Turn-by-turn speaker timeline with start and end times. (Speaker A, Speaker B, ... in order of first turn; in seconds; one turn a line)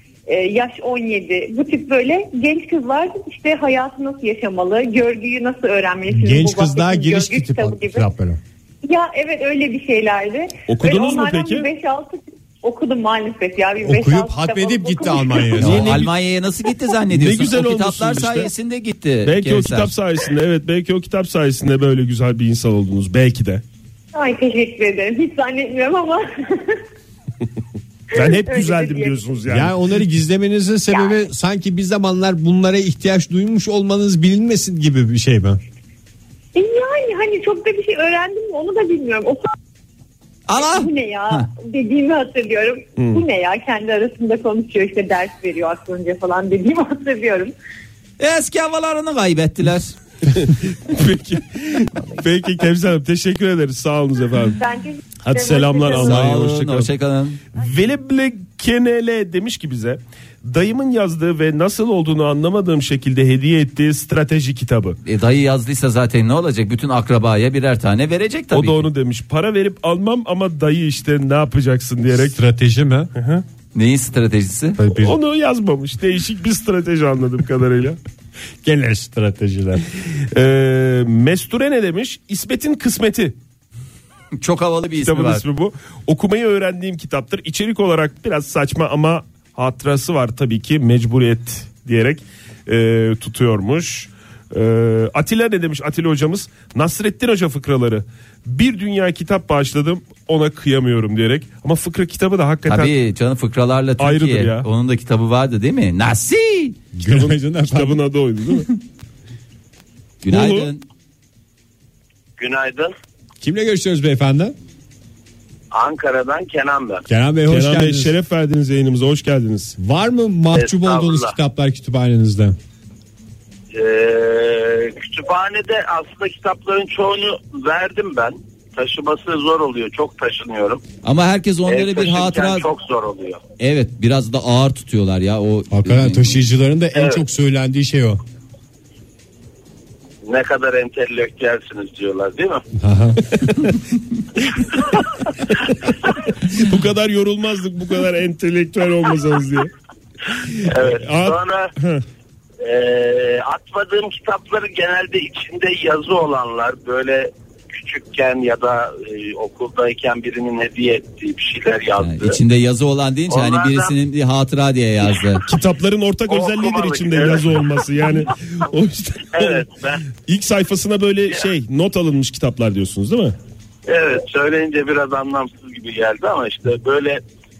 Speaker A: 0.3-8.1
Speaker B: 6.1-8.4
Speaker A: 8.8-15.8
Speaker C: 10.7-11.7
Speaker B: 13.8-16.0
Speaker C: 15.6-16.1
Speaker D: 15.6-19.9
Speaker C: 17.1-18.5
Speaker C: 19.2-23.6
Speaker A: 24.1-26.8
Speaker C: 28.1-30.0
Speaker A: 28.1-29.2
Speaker B: 29.5-35.6
Speaker A: 30.9-31.2
Speaker A: 36.5-39.5
Speaker D: 40.5-41.5
Speaker A: 40.5-47.5
Speaker C: 43.0-43.2
Speaker D: 48.2-50.0
Speaker C: 50.3-54.6
Speaker A: 54.6-56.2
Speaker C: 55.2-56.9
Speaker D: 55.9-57.4
Speaker C: 57.5-65.0
Speaker D: 65.0-68.9
Speaker C: 68.5-72.3
Speaker B: 72.1-73.1
Speaker C: 73.1-73.4
Speaker D: 73.7-74.8
Speaker B: 74.8-75.2
Speaker C: 74.9-78.0
Speaker B: 78.6-79.9
Speaker C: 80.3-83.3
Speaker D: 84.3-85.4
Speaker C: 85.0-102.9
Speaker D: 102.7-106.8
Speaker C: 104.0-104.7
Speaker B: 106.9-108.0
Speaker C: 107.0-108.7
Speaker D: 110.2-110.8
Speaker C: 110.3-110.7
Speaker E: 112.4-112.9
Speaker B: 113.4-114.5
Speaker E: 115.7-117.0
Speaker B: 117.1-118.1
Speaker C: 117.5-119.8
Speaker B: 119.8-122.5
Speaker E: 120.5-121.3
Speaker E: 123.7-130.8
Speaker D: 131.0-132.7
Speaker E: 131.7-133.4
Speaker D: 133.6-136.4
Speaker B: 135.7-138.2
Speaker E: 136.9-137.2
Speaker E: 140.2-142.6
Speaker B: 142.8-143.2
Speaker C: 146.3-149.7
Speaker C: 150.4-152.0
Speaker E: 150.6-151.7
Speaker E: 152.6-162.4
Speaker D: 162.0-165.4
Speaker E: 163.3-163.9
Speaker C: 165.4-169.7
Speaker E: 166.3-167.6
Speaker E: 169.3-170.0
Speaker C: 170.2-173.3
Speaker E: 173.9-177.2